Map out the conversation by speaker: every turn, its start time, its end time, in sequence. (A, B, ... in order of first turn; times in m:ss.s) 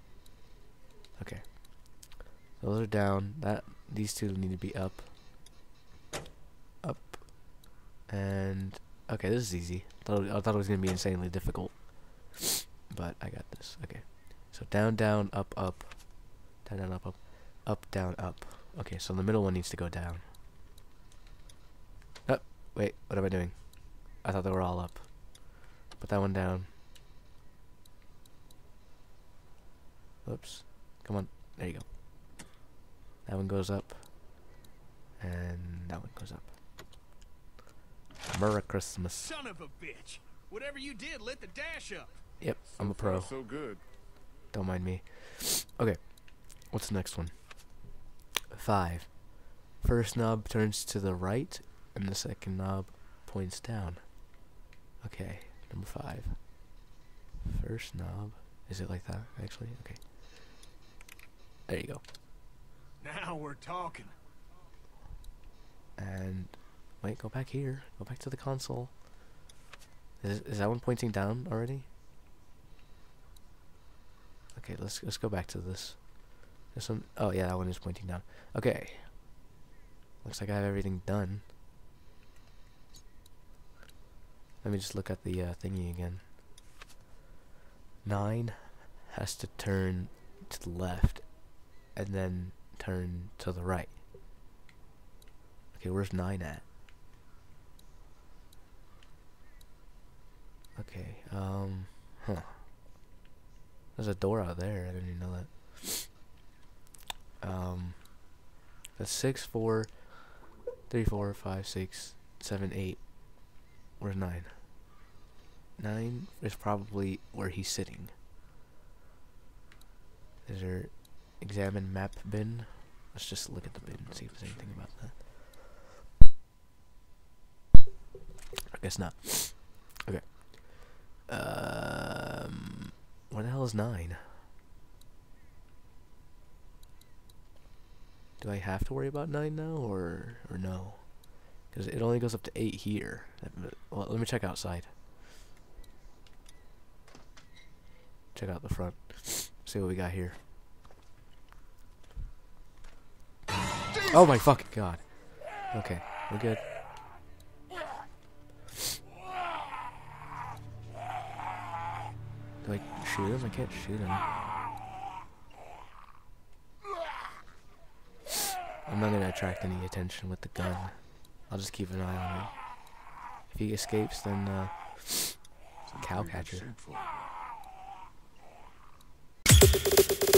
0:01.2-0:05.1 A
0:06.8-0:20.2 A
0:22.3-0:26.7 A
0:30.2-0:31.9 A
0:33.2-0:34.4 A
0:35.2-0:36.6 A
0:38.3-0:39.3 A
0:39.1-0:42.2 B
0:42.4-0:43.4 A
0:42.6-0:43.8 C
0:44.5-0:47.8 A
0:48.5-0:54.3 A
0:55.0-0:56.8 A
0:57.4-1:00.0 A
1:01.7-1:02.0 A
1:03.0-1:04.1 B
1:06.0-1:09.0 A
1:10.2-1:11.9 A
1:14.5-1:19.2 A
1:20.2-1:21.5 A
1:24.6-1:26.3 A
1:28.0-1:34.0 A
1:35.7-1:36.6 A
1:40.8-1:42.7 A
1:44.0-1:46.1 A
1:47.4-1:48.4 A
1:49.0-1:54.6 A
1:55.8-1:58.1 A
2:00.4-2:05.2 A
2:03.5-2:04.9 C
2:08.7-2:14.4 A
2:18.4-2:24.9 A
2:28.3-2:30.4 A
2:34.1-2:36.7 A
2:42.6-2:44.2 A
2:43.2-2:44.6 C
2:48.9-2:52.9 A
2:53.5-2:55.4 A
2:55.9-2:57.3 C
2:56.0-2:56.7 A